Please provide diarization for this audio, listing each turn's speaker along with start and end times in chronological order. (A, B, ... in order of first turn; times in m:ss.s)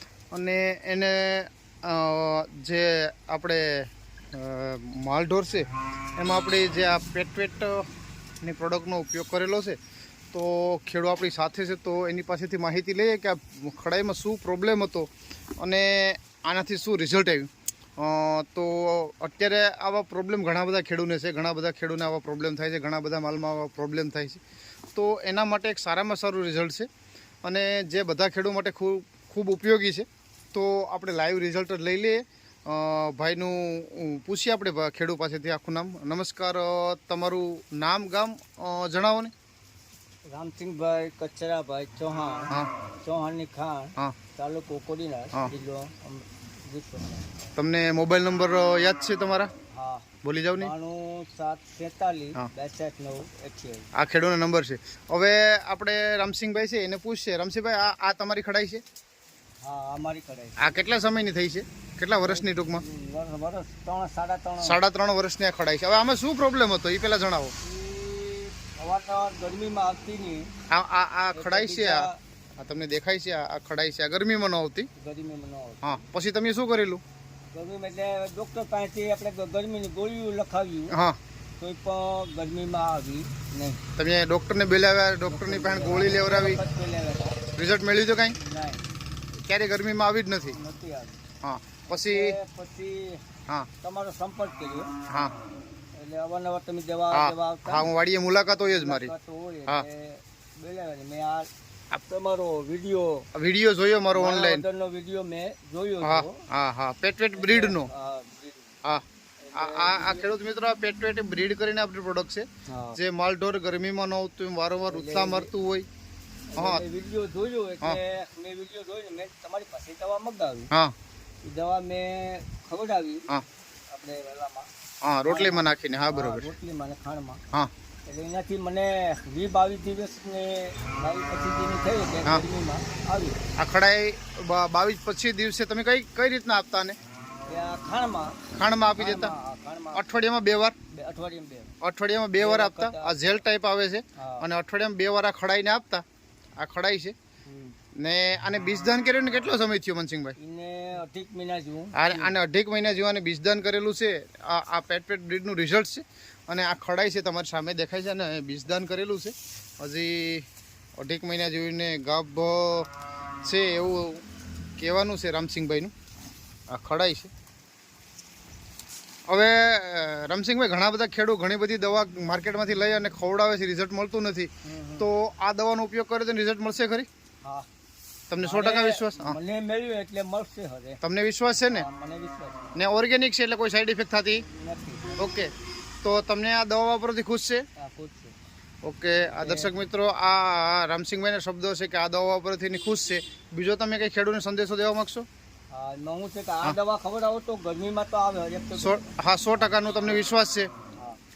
0:00.3-0:07.9 A
0:08.4-0:09.8 A
0:10.3-0:24.4 A
0:25.0-0:26.9 A
0:27.4-0:39.3 A
0:40.3-0:47.3 B
0:47.6-0:49.5 A
0:49.7-0:53.9 B
0:50.2-0:50.7 A
0:53.9-0:58.8 A
0:59.6-1:00.7 B
1:00.6-1:02.8 A
1:02.2-1:04.8 B
1:04.6-1:07.5 A
1:07.6-1:10.5 B
1:10.7-1:12.1 A
1:11.3-1:12.2 B
1:12.6-1:14.9 A
1:15.0-1:16.0 B
1:15.8-1:17.0 A
1:17.5-1:21.0 B
1:20.9-1:21.2 A
1:21.6-1:23.8 B
1:24.0-1:26.6 A
1:25.2-1:27.4 B
1:27.5-1:28.4 A
1:28.4-1:28.8 B
1:29.4-1:30.6 A
1:30.6-1:31.2 B
1:31.4-1:32.4 A
1:31.9-1:33.2 B
1:33.8-1:34.9 B
1:35.1-1:35.4 A
1:36.0-1:37.9 B
1:37.1-1:39.1 A
1:38.5-1:43.3 B
1:43.3-1:44.6 A
1:44.1-1:46.4 B
1:46.0-1:47.9 A
1:47.3-1:48.8 B
1:48.8-1:55.9 A
1:49.4-1:50.3 B
1:52.7-1:53.0 B
1:54.8-1:55.5 B
1:56.5-2:00.7 B
1:56.6-1:56.8 A
2:01.4-2:03.3 B
2:03.9-2:04.7 B
2:05.0-2:06.5 A
2:05.3-2:07.4 B
2:08.1-2:13.4 B
2:13.6-2:17.0 A
2:17.5-2:18.4 B
2:18.5-2:19.3 A
2:19.0-2:20.1 B
2:19.9-2:20.8 A
2:20.9-2:21.8 B
2:21.8-2:26.0 A
2:22.4-2:23.2 B
2:24.2-2:24.5 B
2:26.6-2:27.2 A
2:27.5-2:27.8 B
2:28.0-2:30.4 A
2:30.4-2:32.4 B
2:31.9-2:40.4 A
2:41.0-2:42.9 A
2:43.4-2:44.2 A
2:44.8-2:45.9 A
2:46.7-2:47.3 A
2:49.3-2:57.1 A
2:54.6-2:55.1 B
2:57.4-2:57.7 B
2:58.3-2:59.4 A
2:58.4-3:01.0 B
3:01.0-3:01.9 A
3:01.7-3:02.8 B
3:02.8-3:04.4 A
3:04.5-3:05.3 B
3:05.2-3:05.5 A
3:06.0-3:07.6 A
3:07.8-3:08.4 B
3:08.8-3:15.3 A
3:09.4-3:09.7 B
3:15.7-3:19.0 B
3:18.8-3:20.7 A